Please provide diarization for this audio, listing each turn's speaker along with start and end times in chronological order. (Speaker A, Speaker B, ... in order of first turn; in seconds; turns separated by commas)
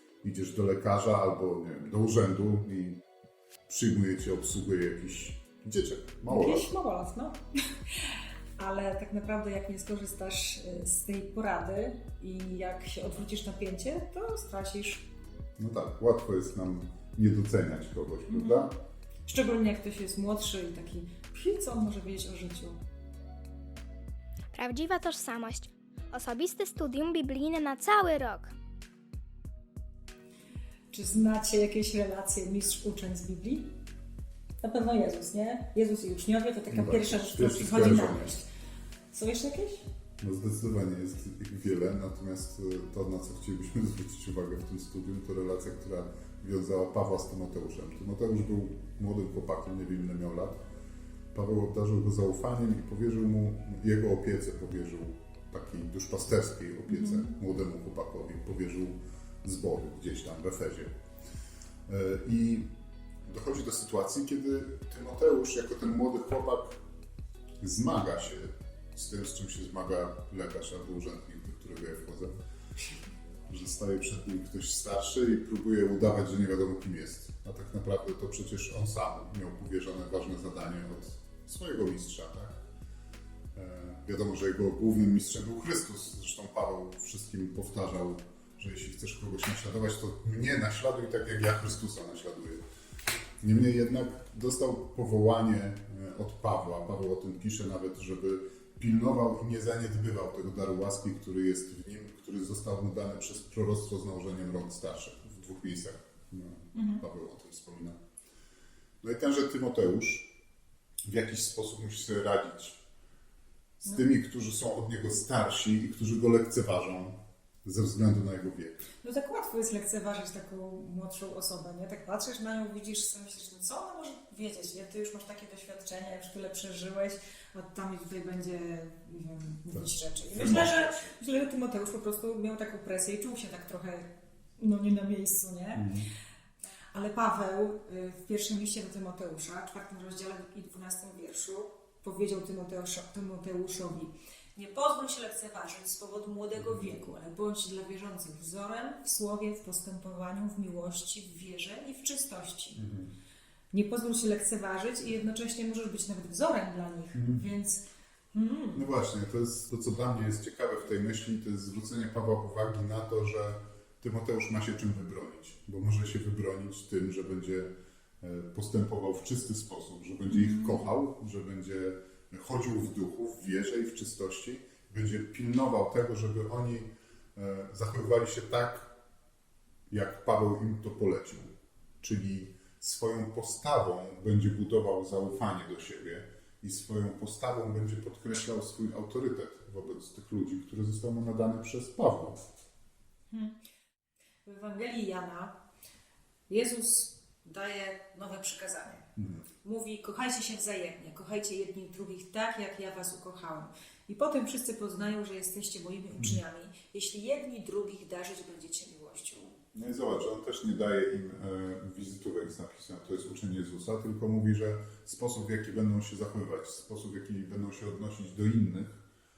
Speaker A: 0.2-3.0, Speaker A: 3.7-6.7, Speaker B: 6.3-15.1, Speaker A: 15.6-18.7, Speaker B: 18.3-18.7, Speaker B: 19.2-22.8, Speaker C: 24.5-28.5, Speaker B: 30.9-33.7, Speaker B: 34.6-38.5, Speaker A: 36.7-38.4, Speaker B: 39.1-39.8, Speaker A: 40.2-50.6, Speaker A: 51.3-60.9, Speaker B: 56.9-57.3, Speaker A: 61.9-62.7, Speaker A: 63.3-66.8, Speaker A: 67.6-72.3, Speaker A: 73.5-82.6, Speaker A: 83.5-92.6, Speaker A: 93.4-108.0, Speaker B: 106.7-107.0, Speaker A: 109.0-110.3, Speaker A: 111.0-112.8, Speaker A: 113.8-118.8, Speaker B: 119.0-135.9, Speaker A: 129.7-130.9, Speaker A: 135.7-136.1, Speaker B: 136.9-152.8, Speaker A: 146.6-146.9, Speaker A: 152.8-153.1, Speaker B: 153.7-157.8, Speaker A: 157.1-157.4, Speaker B: 158.3-158.9, Speaker A: 158.7-167.7, Speaker A: 168.2-178.9, Speaker B: 170.3-170.9, Speaker A: 179.9-181.5, Speaker A: 182.0-192.4, Speaker B: 193.3-193.6, Speaker B: 194.4-195.5, Speaker B: 196.5-199.1, Speaker A: 199.2-199.4, Speaker B: 199.6-209.6, Speaker A: 209.7-219.0